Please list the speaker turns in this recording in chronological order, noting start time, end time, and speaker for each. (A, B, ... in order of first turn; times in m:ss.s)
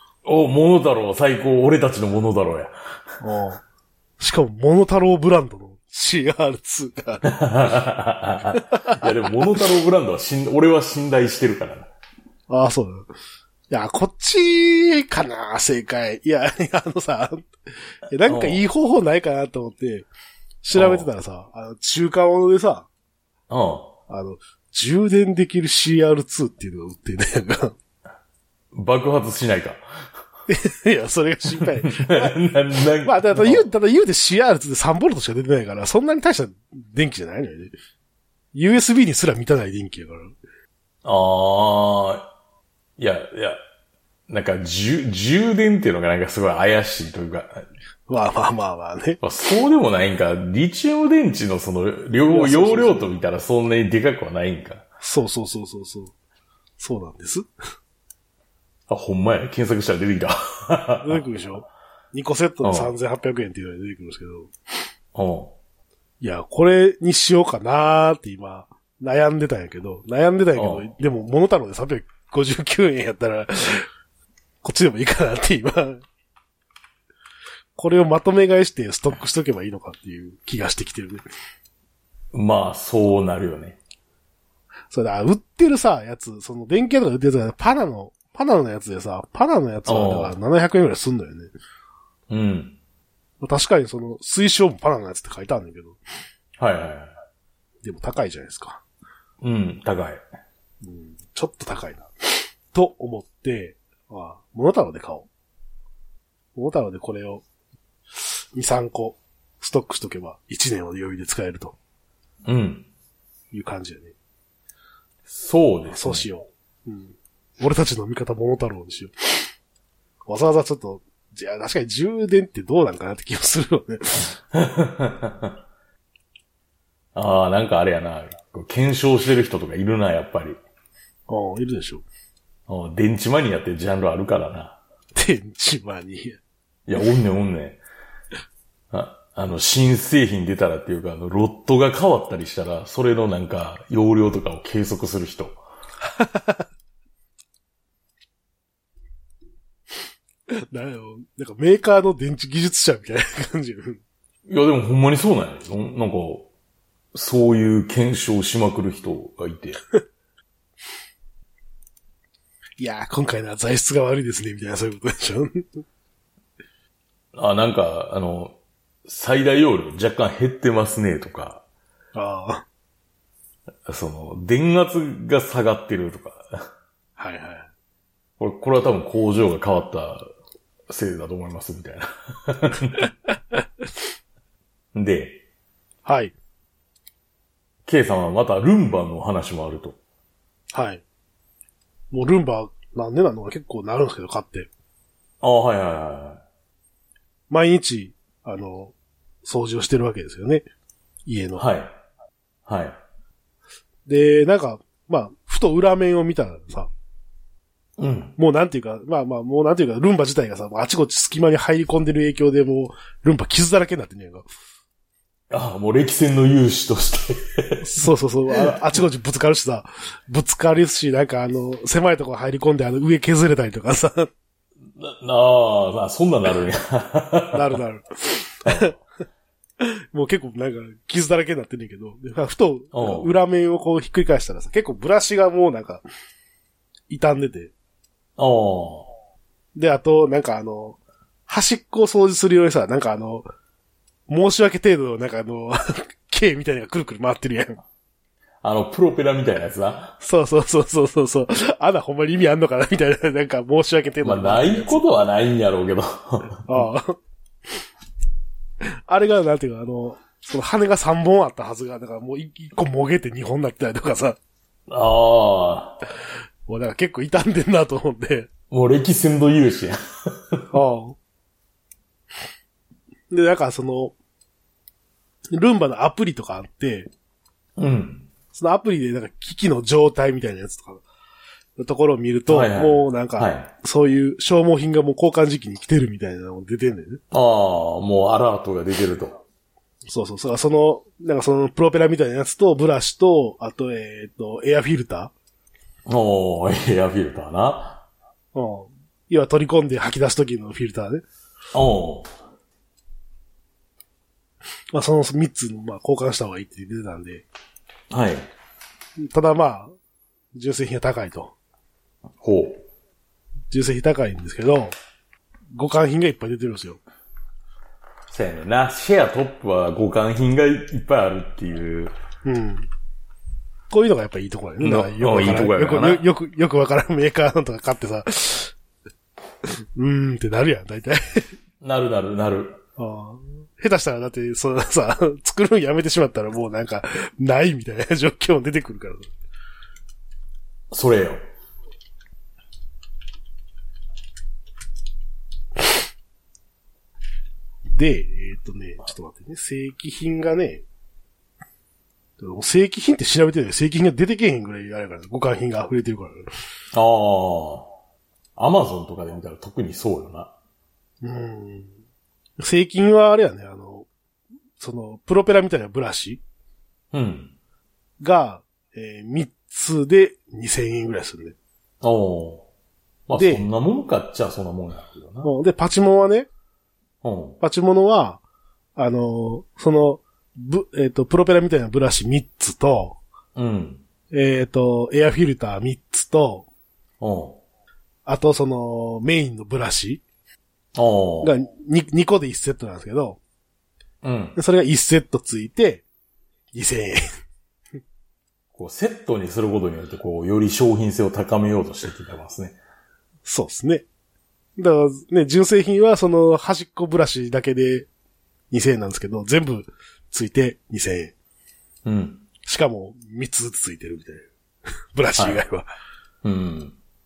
0:00.2-0:02.8 A
0:03.2-0:03.6 B
0:04.2-0:07.3 B
0:07.2-0:11.9 A
0:08.6-0:09.6 B
0:12.5-0:13.1 B
0:13.7-0:17.5 B
0:18.1-0:20.1 B
0:18.2-0:18.6 A
0:20.6-0:22.9 B
0:20.7-0:21.1 A
0:23.5-0:23.9 A
0:24.1-0:27.7 B
0:28.7-0:29.8 A
0:30.5-0:32.4 B
0:31.8-0:33.7 A
0:33.0-0:37.7 B
0:38.5-0:40.3 B
0:41.0-0:42.3 A
0:43.0-0:43.6 A
0:44.3-0:47.6 A
0:48.1-0:49.2 B
0:49.2-0:54.8 A
0:52.3-0:53.1 B
0:55.0-0:56.1 B
0:56.8-0:57.4 B
0:58.9-1:01.2 A
1:01.0-1:04.5 B
1:02.6-1:02.9 A
1:05.1-1:05.5 A
1:06.2-1:13.9 B
1:10.5-1:10.9 A
1:14.6-1:16.0 B
1:17.8-1:21.2 B
1:22.3-1:23.8 A
1:24.9-1:31.5 B
1:29.8-1:30.3 A
1:32.3-1:32.8 A
1:33.4-1:36.0 B
1:36.6-1:37.1 A
1:37.8-1:38.8 B
1:39.4-1:40.2 A
1:40.8-1:45.3 B
1:46.5-1:47.4 B
1:48.1-1:51.8 B
1:52.4-1:52.9 A
1:53.5-1:54.1 B
1:55.2-1:56.2 A
1:55.9-1:59.5 B
2:00.3-2:04.3 B
2:04.5-2:05.6 A
2:07.1-2:10.6 A
2:11.3-2:12.0 B
2:12.7-2:14.8 A
2:15.1-2:16.4 B
2:16.9-2:17.8 A
2:18.9-2:25.6 A
2:26.0-2:26.6 B
2:30.6-2:34.0 B
2:34.4-2:36.5 A
2:37.1-2:39.8 A
2:42.8-2:45.8 B
2:47.3-2:48.5 A
2:49.0-2:51.6 A
2:52.1-2:52.6 B
2:53.8-2:56.7 A
2:57.2-2:57.7 B
2:58.4-3:00.3 A
3:00.9-3:03.0 A
3:04.9-3:05.4 A
3:06.0-3:06.3 B
3:07.8-3:10.0 A
3:10.7-3:11.0 B
3:12.1-3:14.7 B
3:15.4-3:16.4 A
3:17.5-3:20.7 B
3:21.2-3:21.6 B
3:21.6-3:22.0 A
3:22.6-3:23.0 A
3:24.0-3:26.9 B
3:28.0-3:28.3 A
3:28.4-3:34.4 B
3:35.5-3:37.8 A
3:37.8-3:44.3 B
3:44.9-3:47.8 A
3:47.5-3:48.9 B
3:48.6-3:49.0 A
3:49.8-3:56.0 B
3:52.9-3:53.3 A
3:57.1-3:57.7 B
3:58.4-3:59.1 A
3:59.7-4:03.5 B
4:04.3-4:07.8 B
4:08.6-4:10.2 A
4:10.2-4:15.0 B
4:14.2-4:16.8 A
4:16.7-4:17.2 B
4:18.8-4:24.4 B
4:24.9-4:26.0 A
4:26.7-4:28.5 B
4:28.7-4:30.6 A
4:30.7-4:31.2 B
4:33.3-4:34.1 B
4:35.5-4:37.1 B
4:37.8-4:38.3 A
4:38.5-4:41.0 B
4:41.8-4:47.2 B
4:42.5-4:43.7 A
4:47.3-4:49.4 A
4:50.1-4:55.3 B
4:56.1-4:58.0 A
4:58.5-5:01.2 B
5:01.7-5:02.3 A
5:04.9-5:07.4 B
5:08.1-5:08.5 A
5:09.2-5:09.9 B
5:10.5-5:11.5 B
5:12.4-5:12.8 A
5:13.7-5:14.9 B
5:15.7-5:17.0 B
5:18.3-5:22.1 A
5:22.4-5:22.9 B
5:23.9-5:28.7 B
5:24.8-5:26.2 A
5:29.7-5:31.5 B
5:31.8-5:32.8 A
5:33.0-5:39.3 B
5:40.9-5:41.4 A
5:47.9-5:50.8 B
5:52.4-5:56.5 B
5:56.9-5:57.9 A
5:58.6-6:00.5 A
6:01.2-6:01.9 B
6:02.6-6:04.1 B
6:04.8-6:06.4 B
6:07.1-6:07.5 A
6:08.2-6:11.6 B
6:12.0-6:12.6 A
6:13.3-6:15.5 A
6:13.3-6:13.7 B
6:15.4-6:16.5 B
6:17.2-6:17.6 A
6:17.6-6:18.4 B
6:19.0-6:23.2 B
6:23.5-6:24.0 A
6:24.3-6:26.7 B
6:27.2-6:27.6 A
6:28.2-6:30.2 B
6:30.9-6:31.5 A
6:31.4-6:33.4 B
6:34.2-6:34.6 A
6:34.6-6:36.0 B
6:36.7-6:37.2 B
6:38.7-6:42.8 A
6:43.4-6:44.0 B
6:44.8-6:48.1 B
6:48.7-6:51.3 B
6:52.0-6:52.4 A
6:52.6-6:54.5 B
6:55.1-6:55.8 B
6:55.4-6:55.6 A
6:56.4-6:57.0 A